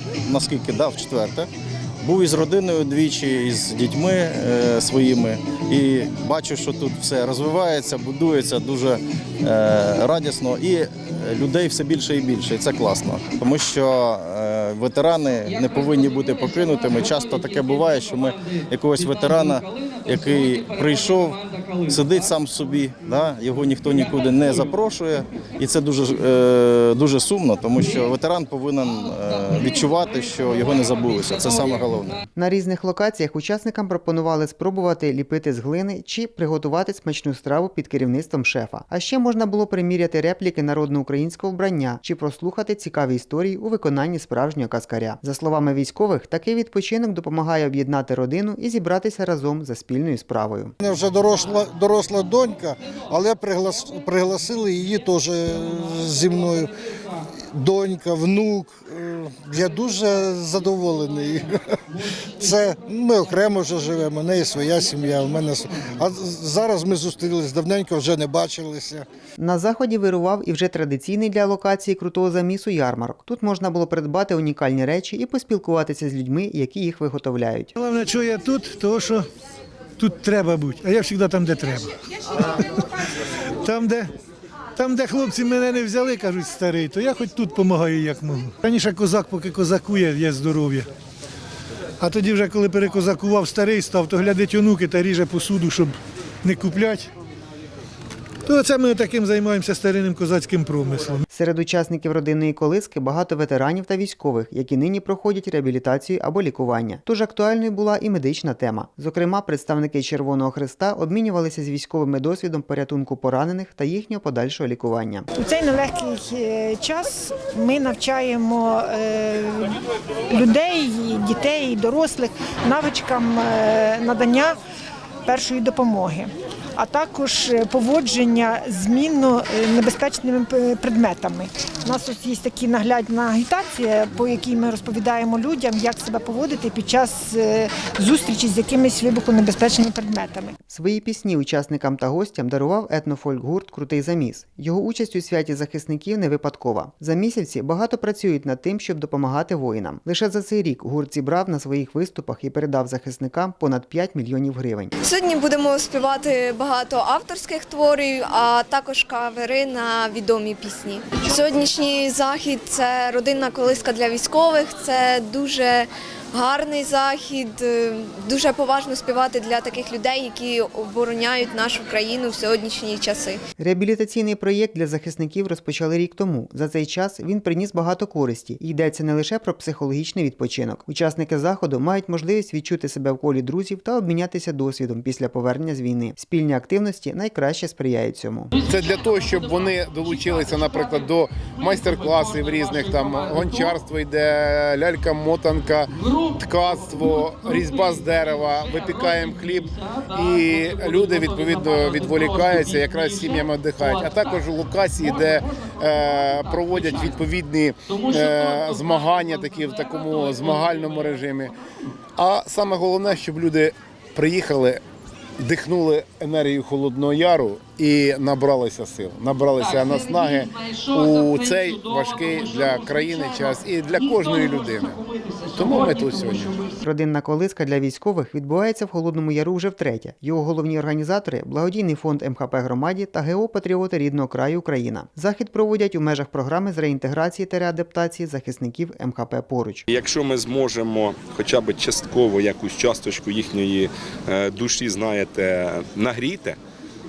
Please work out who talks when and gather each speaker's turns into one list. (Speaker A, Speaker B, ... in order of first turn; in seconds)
Speaker A: 0.2-1.5, 2.0-32.2
Speaker B: 32.4-50.7, 69.4-77.7, 101.3-115.3, 140.7-154.9, 173.6-188.5, 226.8-239.8
Speaker C: 50.8-56.7, 57.5-61.5, 62.4-69.0
Speaker D: 77.8-79.3, 80.0-82.8, 83.6-84.1, 84.8-90.9, 92.0-97.1, 98.5-101.2
Speaker E: 115.4-124.6, 125.3-140.6
Speaker F: 155.0-173.4
Speaker G: 188.7-211.5, 212.2-214.8, 215.4-225.0, 225.5-226.6
Speaker H: 239.9-246.6